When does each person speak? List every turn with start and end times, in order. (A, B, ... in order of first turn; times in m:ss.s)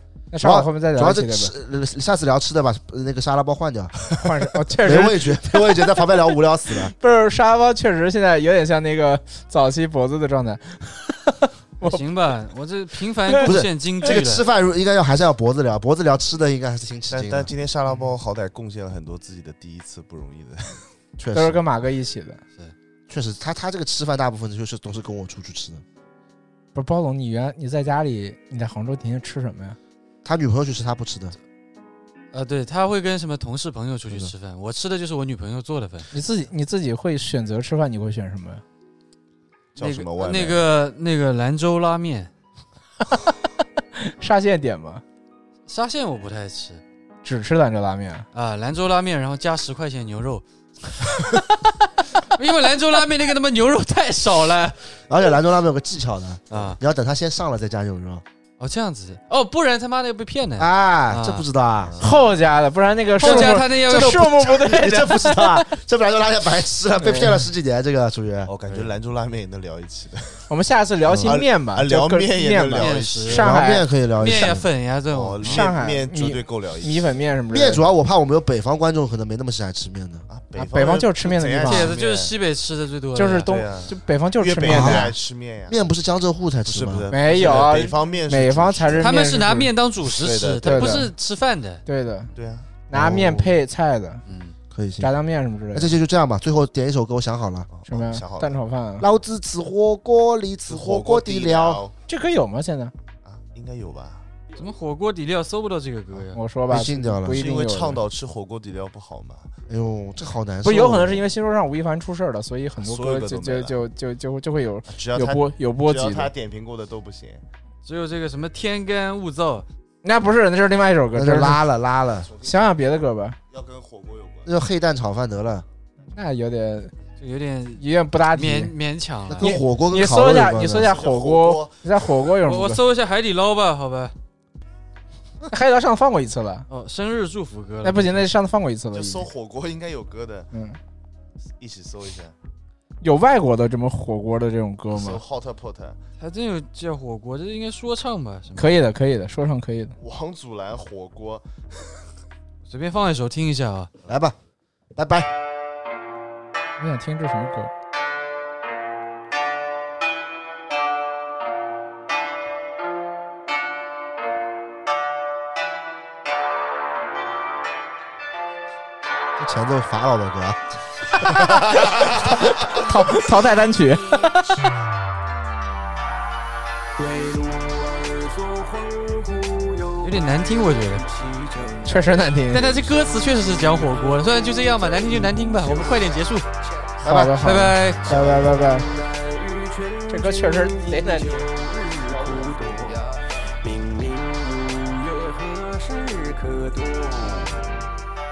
0:00.3-0:01.5 A
0:00.4-0:04.0 B
0:04.1-0:06.1 A
0:04.8-0:06.9 B
0:07.0-0:12.0 A
0:11.8-0:14.4 C
0:13.2-0:14.2 A
0:13.4-0:17.5 B
0:17.1-0:20.9 D
0:21.2-0:21.6 B
0:21.3-0:22.4 A
0:23.1-0:25.8 B
0:26.7-0:29.8 A
0:30.2-0:31.4 B
0:32.3-0:36.1 C
0:36.1-0:38.6 A
0:39.7-0:40.6 D
0:39.8-0:42.3 C
0:44.0-0:45.0 A
0:45.7-0:46.8 C
0:47.2-0:48.3 A
0:48.3-0:50.4 C
0:51.0-0:51.5 C
0:52.1-0:54.8 C
0:55.1-0:58.2 B
0:56.5-0:56.8 C
0:58.6-1:01.4 C
1:00.6-1:02.0 B
1:01.8-1:02.2 D
1:02.0-1:05.7 A
1:03.2-1:04.5 C
1:03.2-1:08.9 B
1:07.0-1:07.4 A
1:08.5-1:10.5 D
1:10.5-1:13.9 A
1:11.1-1:11.3 B
1:11.2-1:13.3 D
1:12.7-1:13.5 C
1:13.3-1:14.7 B
1:14.2-1:15.6 C
1:15.1-1:17.1 D
1:15.4-1:17.8 A
1:17.5-1:20.2 B
1:20.3-1:22.4 D
1:20.6-1:21.9 A
1:21.6-1:23.5 C
1:23.1-1:25.1 A
1:23.4-1:25.8 D
1:24.6-1:25.1 B
1:25.7-1:27.0 B
1:26.6-1:29.2 D
1:27.1-1:29.7 A
1:29.0-1:31.8 C
1:30.0-1:31.1 D
1:30.6-1:31.1 A
1:31.8-1:32.3 A
1:32.4-1:32.7 D
1:32.9-1:34.2 A
1:32.9-1:33.5 B
1:34.2-1:34.6 C
1:34.7-1:35.1 B
1:35.0-1:36.0 A
1:35.7-1:37.7 B
1:37.7-1:38.6 D
1:37.9-1:39.1 A
1:39.0-1:41.8 B
1:40.7-1:41.9 D
1:42.1-1:42.9 A
1:43.2-1:44.2 D
1:44.5-1:46.4 C
1:46.3-1:48.0 A
1:46.7-1:47.5 B
1:47.3-1:49.5 D
1:49.7-1:51.2 B
1:50.6-1:56.3 A
1:52.8-1:53.8 D
1:54.9-1:57.4 D
1:57.8-1:59.6 C
2:00.0-2:01.6 A
2:01.1-2:02.3 B
2:02.2-2:02.6 D
2:02.4-2:03.4 A
2:03.5-2:04.5 D
2:04.4-2:05.6 B
2:06.1-2:07.0 A
2:07.2-2:09.5 C
2:07.8-2:08.7 A
2:09.3-2:10.9 B
2:09.4-2:12.8 A
2:10.8-2:11.8 D
2:12.4-2:14.1 C
2:15.4-2:16.7 A
2:16.7-2:18.3 C
2:17.8-2:19.3 A
2:18.9-2:20.5 D
2:20.5-2:20.8 A
2:21.6-2:22.3 D
2:23.0-2:25.2 A
2:24.9-2:26.0 D
2:26.2-2:28.7 C
2:28.6-2:30.0 A
2:30.0-2:32.0 D
2:32.6-2:33.9 C
2:34.1-2:34.4 B
2:34.9-2:35.3 B
2:36.8-2:37.7 A
2:49.4-2:50.7 B
2:52.1-2:54.7 A
2:57.0-3:06.2 E
3:00.0-3:01.0 C
3:01.8-3:02.7 A
3:02.5-3:06.4 C
3:07.0-3:08.9 A
3:07.0-3:07.8 B
3:07.4-3:08.3 C
3:08.2-3:17.9 E
3:10.1-3:11.4 A